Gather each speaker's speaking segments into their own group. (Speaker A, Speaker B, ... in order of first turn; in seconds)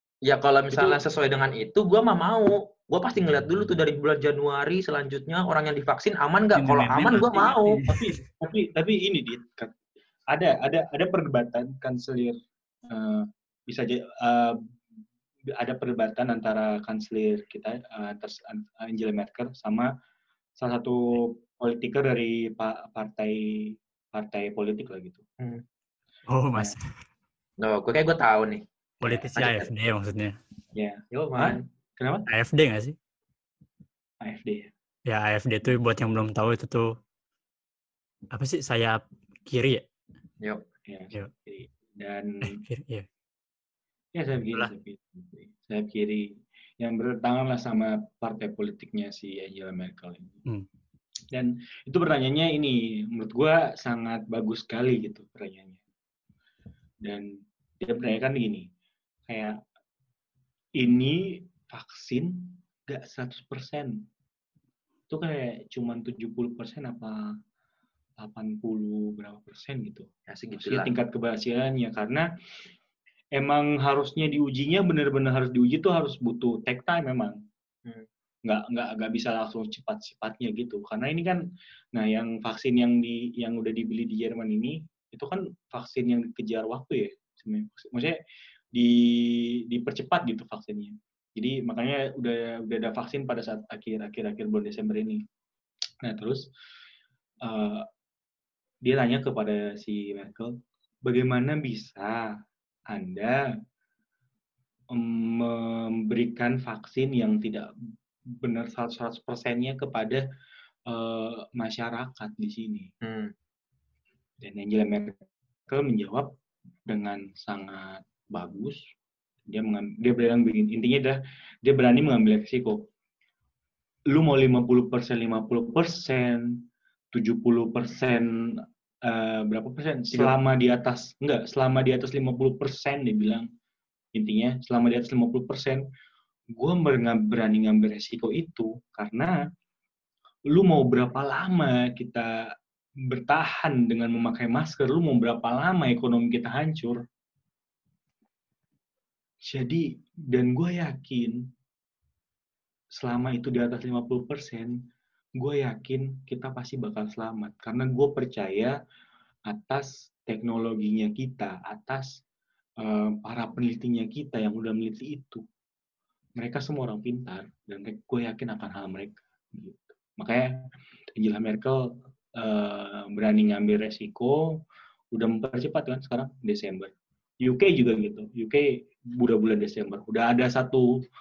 Speaker A: 0.3-7.8, 27.6-28.7, 29.3-29.7, 31.1-31.6, 70.3-70.9, 113.0-113.3
Speaker B: 0.7-1.0, 7.9-9.7, 10.3-12.4, 12.9-14.6, 15.5-19.9, 20.6-25.2, 30.8-32.3, 34.2-34.7, 40.9-42.6, 44.1-50.4, 51.3-55.8, 57.0-58.7, 59.3-59.6, 60.8-64.0, 65.1-67.2, 68.2-72.3, 73.4-77.4, 78.5-81.4, 82.0-88.2, 88.8-95.2, 96.0-96.5, 97.4-97.9, 98.8-102.3, 102.9-103.5, 104.9-107.7, 108.3-110.2, 110.9-112.9, 114.4-116.3, 116.9-118.9, 119.5-122.9, 124.1-126.6, 127.1-128.3, 129.1-133.5, 134.1-135.9, 136.6-139.4, 140.5-142.5, 143.1-147.0, 149.5-151.4, 153.0-154.8, 155.4-158.8, 159.5-162.2, 162.8-165.4, 166.4-174.6, 175.1-176.9, 177.4-181.0
Speaker C: 6.5-8.2, 26.3-26.8, 29.0-30.4, 32.3-33.0, 35.1-36.9, 38.3-39.9, 42.5-43.1